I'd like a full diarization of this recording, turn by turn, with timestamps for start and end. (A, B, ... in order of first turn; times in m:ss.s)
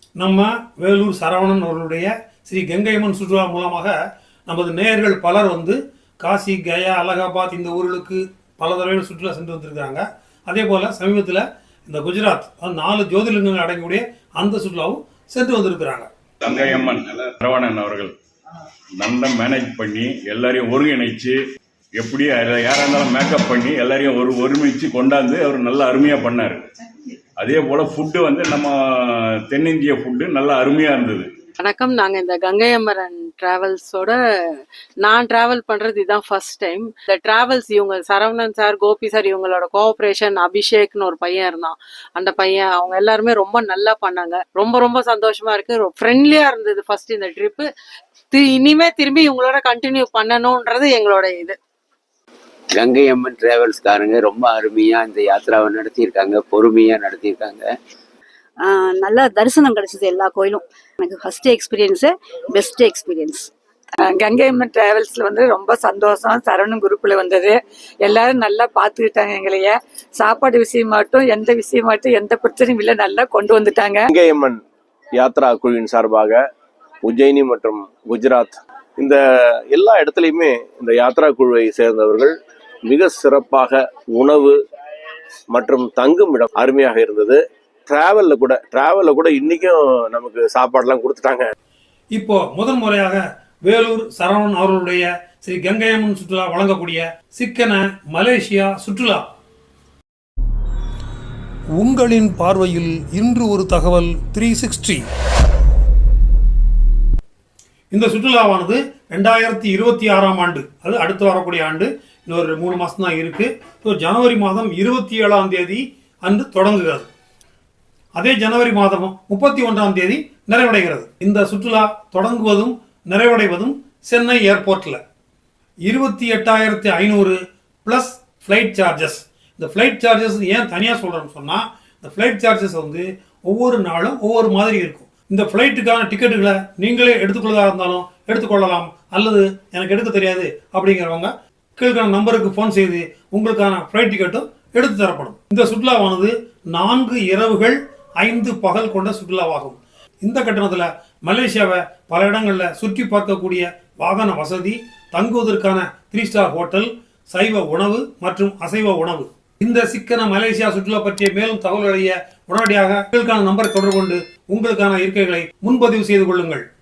0:00.2-0:03.9 A
0:04.5-0:16.1 A
0:16.4-0:18.1 B
0:19.0-0:21.4 B
0:22.0-0:26.7 B
0:27.4-0:31.3 B
0:31.6-0:34.2 C
0:35.0-0:47.7 C
0:48.3-0:51.6 C
0:52.7-0:57.7 D
0:58.6-1:03.5 E
1:04.0-1:14.1 F
1:14.1-1:14.6 G
1:15.2-1:16.4 G
1:17.0-1:22.3 G
1:22.9-1:24.6 G
1:25.5-1:31.5 G
1:32.2-1:39.2 A
1:41.8-1:45.0 A
1:47.9-1:57.1 A
1:58.2-2:05.0 A
2:05.9-2:46.6 A